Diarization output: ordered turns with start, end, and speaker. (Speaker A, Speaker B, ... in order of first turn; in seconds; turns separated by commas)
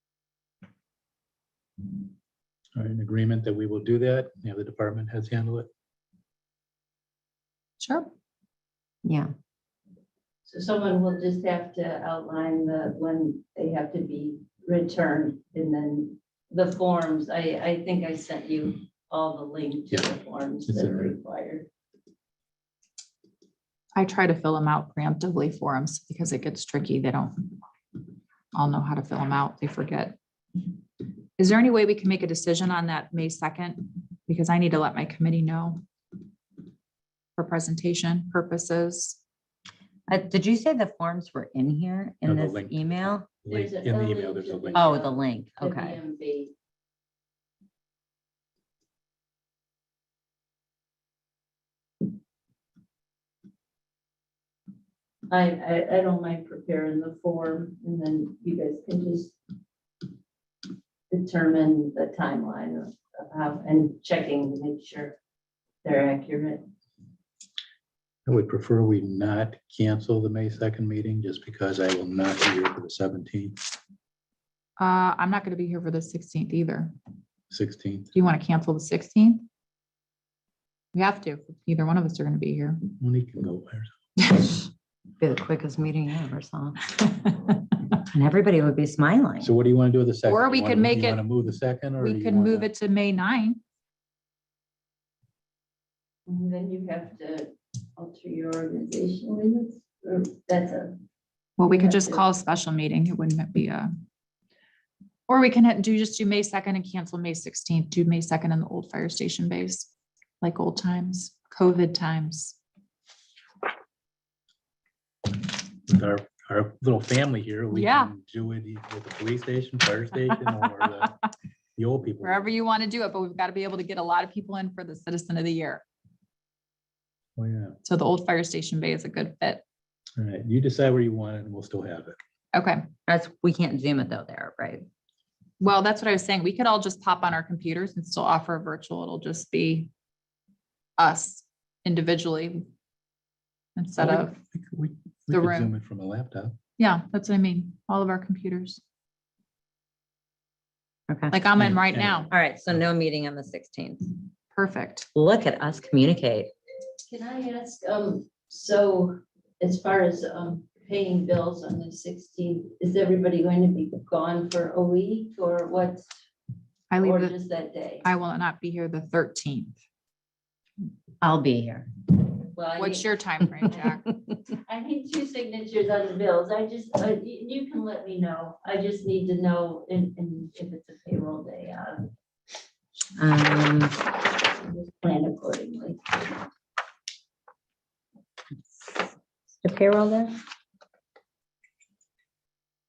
Speaker A: 2.8-5.7, Speaker B: 7.8-8.1, Speaker C: 9.0-9.3, Speaker D: 10.5-21.7, Speaker A: 20.7-21.1, Speaker B: 23.9-27.5, Speaker B: 28.5-30.1, Speaker B: 31.4-35.8, Speaker B: 37.4-39.2, Speaker C: 40.1-43.3, Speaker A: 42.2-45.0, Speaker D: 43.5-46.5, Speaker C: 44.7-46.0, Speaker D: 55.3-59.3, Speaker D: 61.1-65.2, Speaker D: 65.8-66.6, Speaker A: 68.2-73.6, Speaker B: 74.8-76.9, Speaker A: 77.5-78.1, Speaker B: 78.1-79.5, Speaker B: 80.9-82.8, Speaker A: 83.0-83.9, Speaker B: 84.2-84.7, Speaker C: 85.2-86.8, Speaker B: 87.1-87.5, Speaker C: 88.1-89.5, Speaker A: 89.4-92.7, Speaker B: 90.2-91.2, Speaker B: 92.0-93.6, Speaker D: 96.3-101.0, Speaker B: 101.6-103.9, Speaker D: 101.6-102.2, Speaker B: 105.3-109.9, Speaker B: 110.4-112.6, Speaker A: 115.8-121.2, Speaker B: 117.7-118.1, Speaker B: 120.3-120.8, Speaker A: 121.8-122.5, Speaker B: 122.2-125.8, Speaker A: 127.4-127.8, Speaker B: 127.8-129.6, Speaker A: 130.2-132.2, Speaker B: 132.5-132.9, Speaker C: 133.1-134.8, Speaker B: 135.6-139.9, Speaker B: 141.0-142.7, Speaker B: 143.8-144.3, Speaker A: 144.0-146.6, Speaker B: 145.3-145.7, Speaker B: 146.8-148.8, Speaker C: 151.1-151.3, Speaker B: 151.3-152.3, Speaker A: 151.6-152.3, Speaker C: 152.3-154.2, Speaker B: 154.5-155.1, Speaker C: 155.1-156.5, Speaker D: 157.1-166.1, Speaker B: 166.9-167.3, Speaker D: 167.0-168.1, Speaker B: 168.0-169.8, Speaker C: 171.2-171.9, Speaker D: 172.5-173.1, Speaker B: 172.7-174.1, Speaker D: 174.6-182.1, Speaker C: 183.2-183.9, Speaker D: 184.4-186.3, Speaker C: 189.6-190.4